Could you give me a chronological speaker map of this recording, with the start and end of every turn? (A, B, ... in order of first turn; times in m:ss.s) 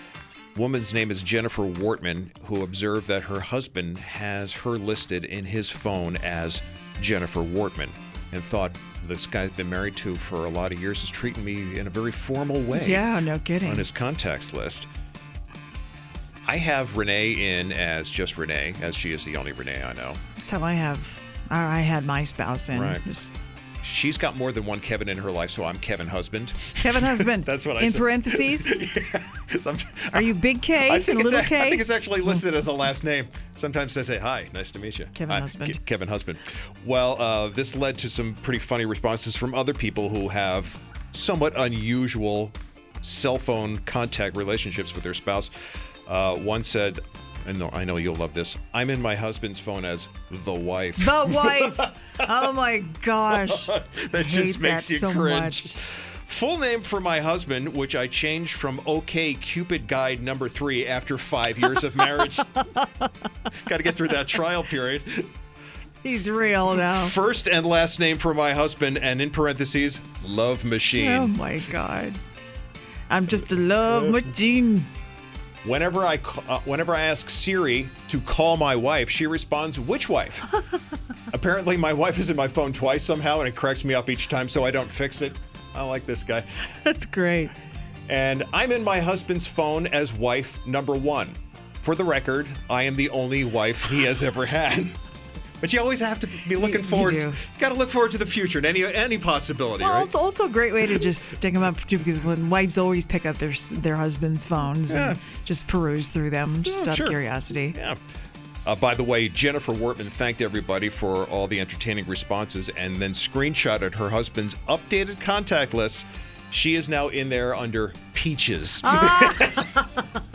0:00.5-0:13.1 A
0:12.7-0:13.9 B
0:13.6-0:14.9 A
0:16.5-0:20.2 A
0:20.4-0:23.3 B
0:22.7-0:23.0 A
0:23.8-0:45.5 A
0:26.8-0:28.7 B
0:30.1-0:32.4 B
0:35.2-0:35.8 B
0:46.1-0:52.3 A
0:51.0-0:55.8 B
0:53.3-1:02.6 A
1:03.6-1:05.3 A
1:06.0-1:07.2 B
1:06.7-1:11.4 A
1:10.9-1:12.2 B
1:13.1-1:14.9 B
1:15.6-1:20.5 A
1:21.3-1:26.6 A
1:26.8-1:27.5 B
1:28.1-1:35.0 A
1:35.6-1:40.1 A
1:36.6-1:37.4 B
1:39.8-1:47.7 B
1:44.9-1:45.2 A
1:46.7-1:47.2 A
1:47.7-1:48.0 A
1:48.6-1:59.9 A
1:58.8-1:59.6 B